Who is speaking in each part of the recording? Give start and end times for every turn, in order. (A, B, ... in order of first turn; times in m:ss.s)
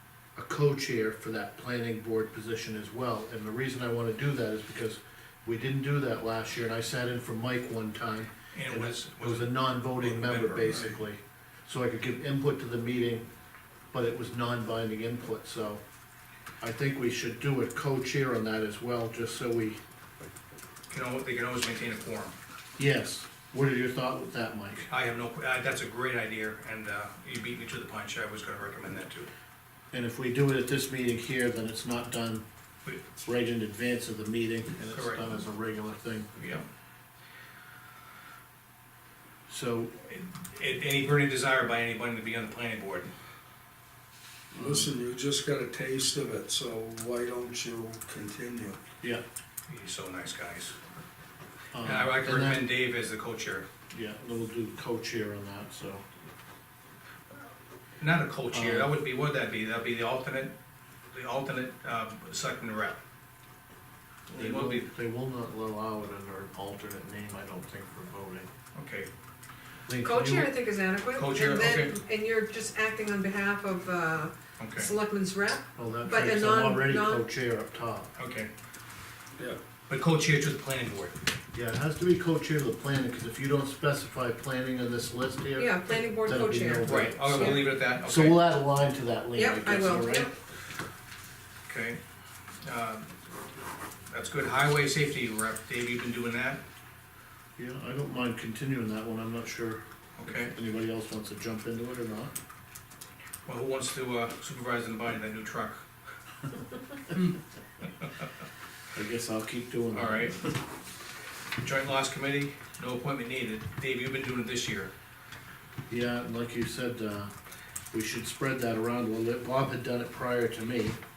0:00.4-0:13.2 A
0:08.5-0:11.0 B
0:13.9-0:15.8 A
0:16.6-0:19.8 A
0:20.9-0:22.4 B
0:22.8-0:24.9 A
0:24.9-0:29.3 B
0:29.9-0:32.4 A
0:32.8-0:33.1 B
0:33.2-0:36.3 A
0:34.9-0:35.4 B
0:36.4-0:36.7 B
0:39.5-0:40.0 A
0:40.0-0:43.1 B
0:44.5-0:48.8 C
0:44.6-0:44.9 A
0:49.7-0:50.8 B
0:51.7-0:52.6 A
0:51.8-0:53.7 B
0:53.9-0:56.0 A
0:58.0-1:00.5 B
0:58.5-0:58.9 A
1:01.1-1:03.0 B
1:04.3-1:08.5 A
1:04.3-1:04.9 B
1:08.7-1:09.1 B
1:09.9-1:10.5 A
1:10.0-1:17.2 D
1:11.2-1:11.9 B
1:14.6-1:14.9 B
1:15.8-1:18.1 A
1:18.2-1:18.5 B
1:19.9-1:21.2 B
1:21.5-1:30.3 A
1:25.6-1:27.6 D
1:26.8-1:28.5 B
1:29.3-1:30.4 D
1:31.7-1:32.0 B
1:32.6-1:33.1 B
1:34.1-1:36.6 B
1:37.6-1:42.4 A
1:40.2-1:40.5 B
1:43.5-1:45.8 B
1:47.1-1:48.1 B
1:48.9-1:50.6 A
1:49.9-1:50.4 B
1:51.6-1:54.9 B
1:55.9-1:57.3 A
1:57.9-2:01.0 A